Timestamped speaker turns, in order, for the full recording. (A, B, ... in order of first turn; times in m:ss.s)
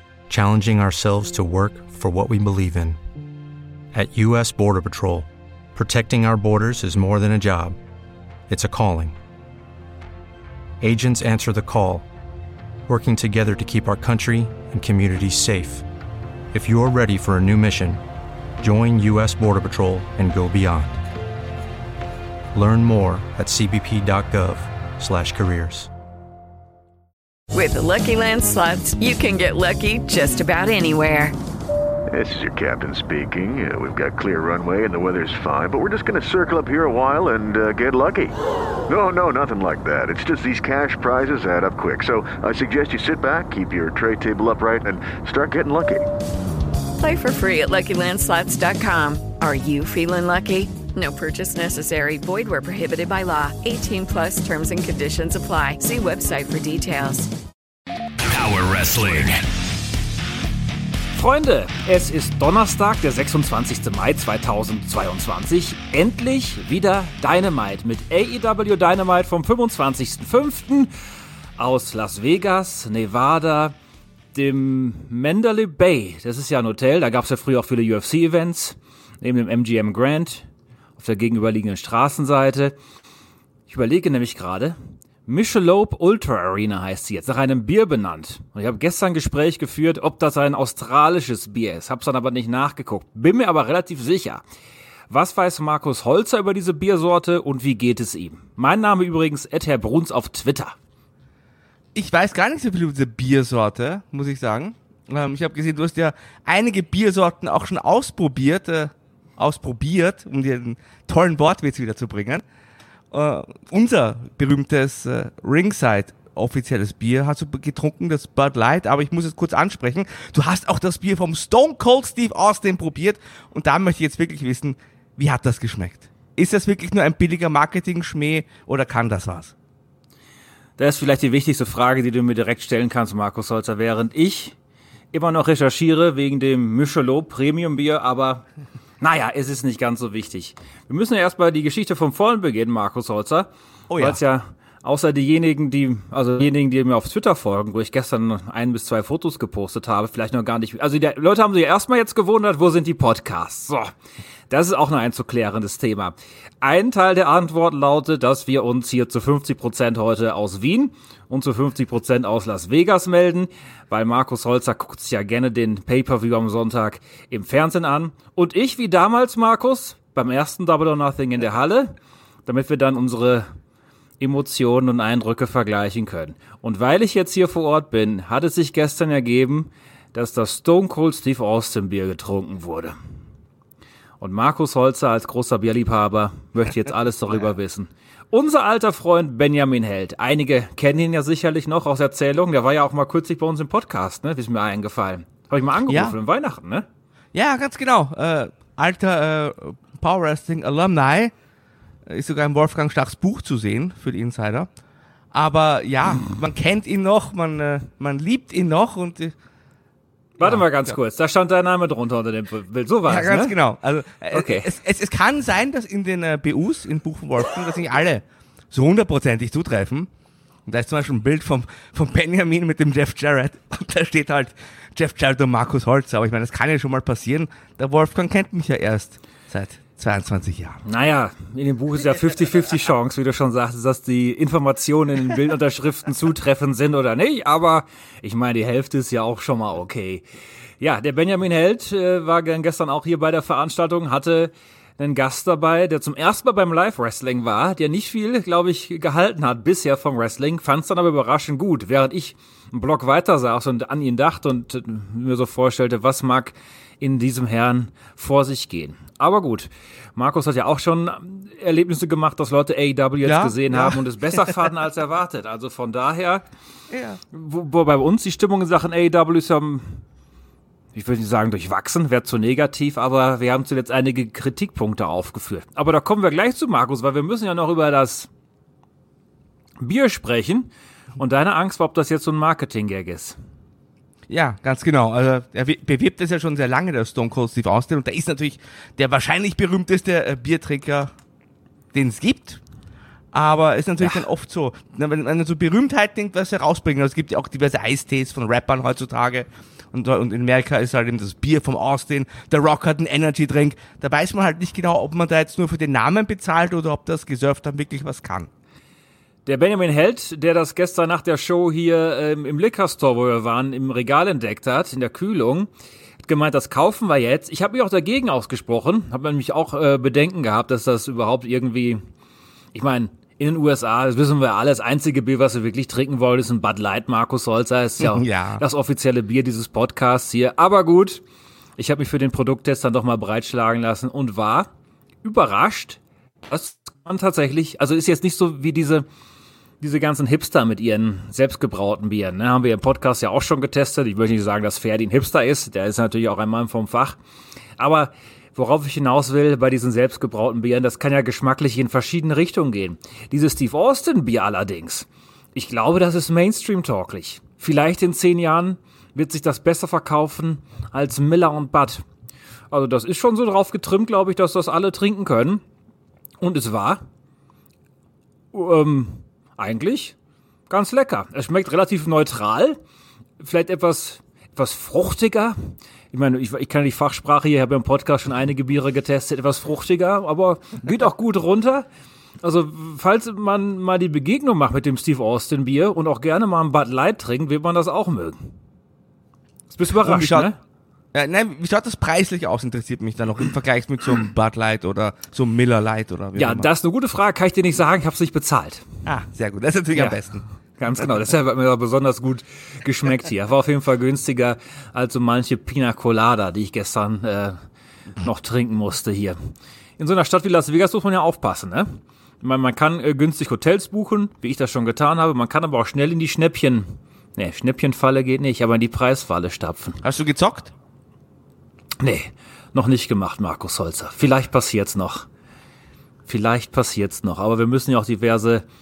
0:00.3-0:03.0 A
0:03.9-0:07.8 A
0:08.5-0:09.2 A
0:10.8-0:12.1 A
0:12.8-0:15.8 A
0:16.5-0:18.0 A
0:18.6-0:21.0 A
0:22.5-0:25.9 A
0:27.5-0:31.3 B
0:32.1-0:38.4 C
0:38.9-0:46.1 C
0:47.0-0:57.3 B
0:58.8-0:59.3 C
1:01.1-1:10.9 D
1:11.6-1:13.7 D
1:14.3-1:20.5 D
1:21.0-1:22.8 D
1:23.7-1:34.4 D
1:35.1-1:40.7 D
1:41.9-1:52.4 E
1:53.1-2:09.5 E
2:10.8-2:14.5 D
2:15.1-2:18.4 D
2:19.0-2:33.9 D
2:23.9-2:24.2 E
2:34.5-2:51.9 D
2:52.4-2:53.5 D
2:54.2-3:03.0 D
3:04.2-3:16.8 D
3:15.9-3:16.2 E
3:17.3-3:21.3 E
3:22.0-3:24.7 E
3:25.3-3:29.4 E
3:30.4-3:33.6 D
3:30.4-3:30.9 E
3:33.0-3:40.1 E
3:34.3-3:34.7 D
3:40.7-3:50.8 E
3:50.8-4:00.2 D
4:00.8-4:26.4 D
4:23.2-4:24.0 E
4:26.9-4:27.2 E
4:27.3-4:30.0 D
4:30.9-4:38.3 D
4:39.8-4:43.4 D
4:44.3-4:51.1 E
4:51.9-4:52.6 E
4:53.3-5:08.5 E
5:09.4-5:15.7 D
5:16.2-5:22.0 D
5:22.7-5:31.2 D
5:28.0-5:28.6 E
5:31.8-5:34.7 D
5:35.2-5:39.0 D
5:39.8-5:47.2 D
5:47.8-6:02.0 D
6:02.7-6:05.6 D
6:06.4-6:07.0 D
6:08.5-6:10.1 D
6:10.7-6:12.8 D
6:13.4-6:21.8 D
6:22.4-6:28.5 D
6:29.7-6:30.6 D
6:30.0-6:30.5 E
6:31.1-6:36.7 E
6:36.3-6:38.8 D
6:39.0-6:40.4 E
6:39.9-6:40.2 D
6:40.8-6:47.6 D
6:48.2-6:49.4 D
6:50.0-7:00.0 D
7:00.0-7:00.7 E
7:02.0-7:05.2 D
7:06.3-7:08.6 D